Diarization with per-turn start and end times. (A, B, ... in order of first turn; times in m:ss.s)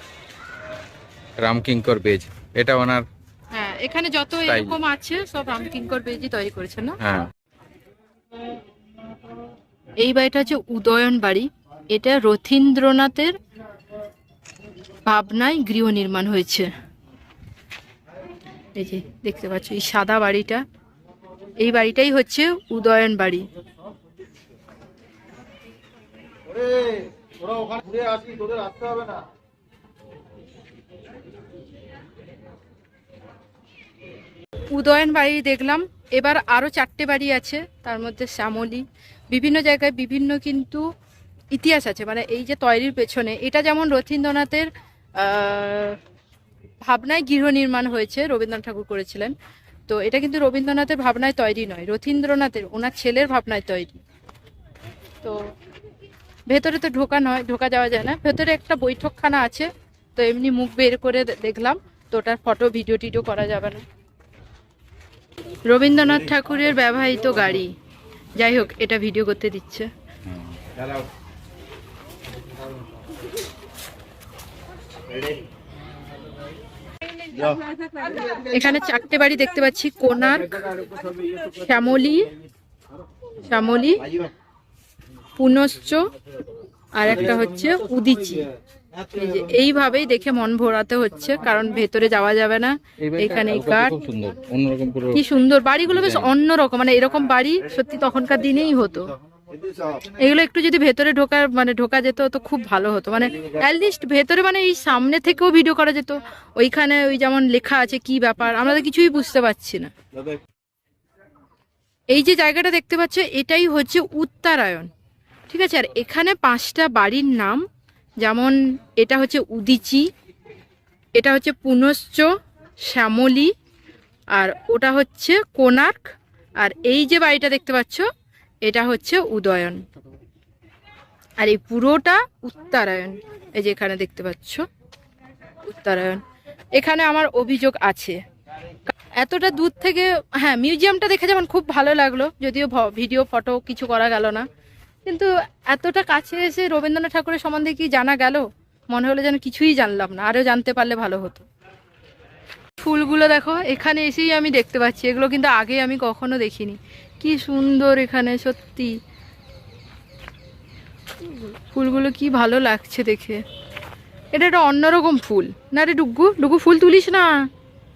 0:01.4-0:03.0 A
0:03.5-0:07.0 B
0:04.4-0:04.8 A
0:07.0-0:07.3 A
0:10.0-0:13.4 B
0:15.0-0:16.7 B
0:18.7-0:20.6 B
0:21.6-0:23.5 B
0:34.7-0:40.8 B
0:41.5-0:46.0 B
0:46.8-0:49.3 B
0:49.9-0:54.0 B
0:56.5-1:03.8 B
1:05.7-1:07.7 B
1:08.4-1:09.9 B
1:10.5-1:10.8 A
1:18.3-1:20.7 B
1:21.4-1:22.3 B
1:23.4-1:24.1 B
1:25.4-1:26.0 B
1:26.9-1:28.5 B
1:29.1-1:34.0 B
1:33.0-1:35.2 A
1:35.1-1:39.1 B
1:35.9-1:36.3 A
1:40.2-1:49.9 B
1:52.1-1:54.9 B
1:55.5-1:57.6 B
1:58.2-2:00.1 B
2:01.2-2:03.5 B
2:04.3-2:08.1 B
2:08.6-2:09.8 B
2:11.4-2:14.6 B
2:15.6-2:16.2 B
2:16.7-2:18.2 B
2:18.8-2:24.5 B
2:25.0-2:31.4 B
2:32.8-2:39.0 B
2:41.4-2:43.4 B
2:44.3-2:47.3 B